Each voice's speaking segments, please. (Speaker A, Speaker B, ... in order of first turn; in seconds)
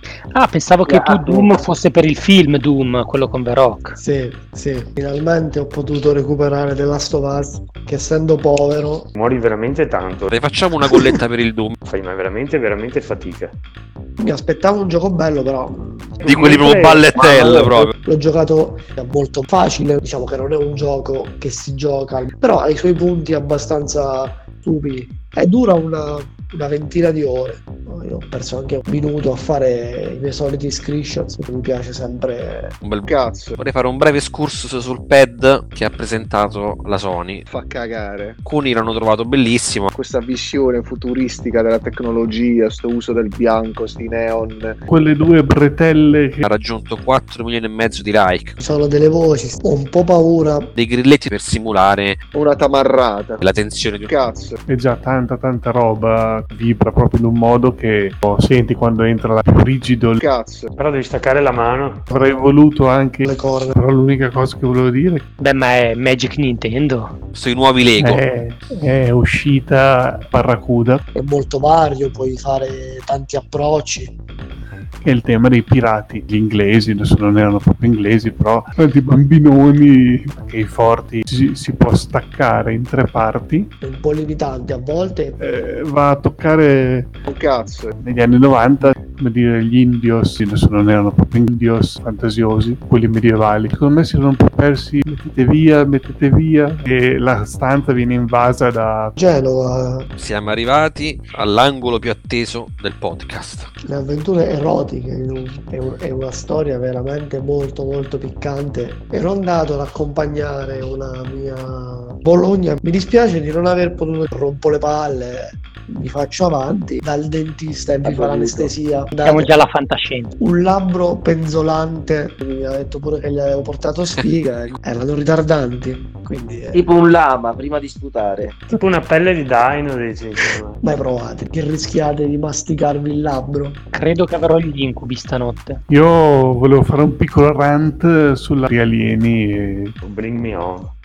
Speaker A: 0.3-4.0, 65.4-67.1, 119.2-120.3, 133.9-135.8
Speaker B: 0.8-1.6, 118.0-118.7, 126.7-128.6
Speaker C: 4.0-9.1, 14.2-32.8, 48.6-50.7, 63.2-63.8, 71.1-74.2, 83.8-85.4, 99.2-100.1, 103.9-119.6, 120.4-126.9, 130.8-133.8
Speaker D: 9.2-10.4, 11.9-13.6, 16.2-17.0, 60.8-62.0, 128.8-130.8, 140.0-140.9
Speaker E: 10.3-11.8, 16.2-17.9, 32.8-37.4, 38.4-39.9, 46.4-48.6, 50.8-52.2, 53.4-54.1, 67.3-68.2, 100.2-103.7
Speaker F: 33.0-33.6, 37.5-38.4, 39.9-44.8, 52.3-53.4, 54.0-54.6, 60.2-60.7, 87.3-87.9
Speaker G: 44.9-46.4, 54.7-60.2, 62.1-65.2, 68.0-71.0, 75.0-83.7, 85.4-87.1, 88.0-99.2, 135.9-139.9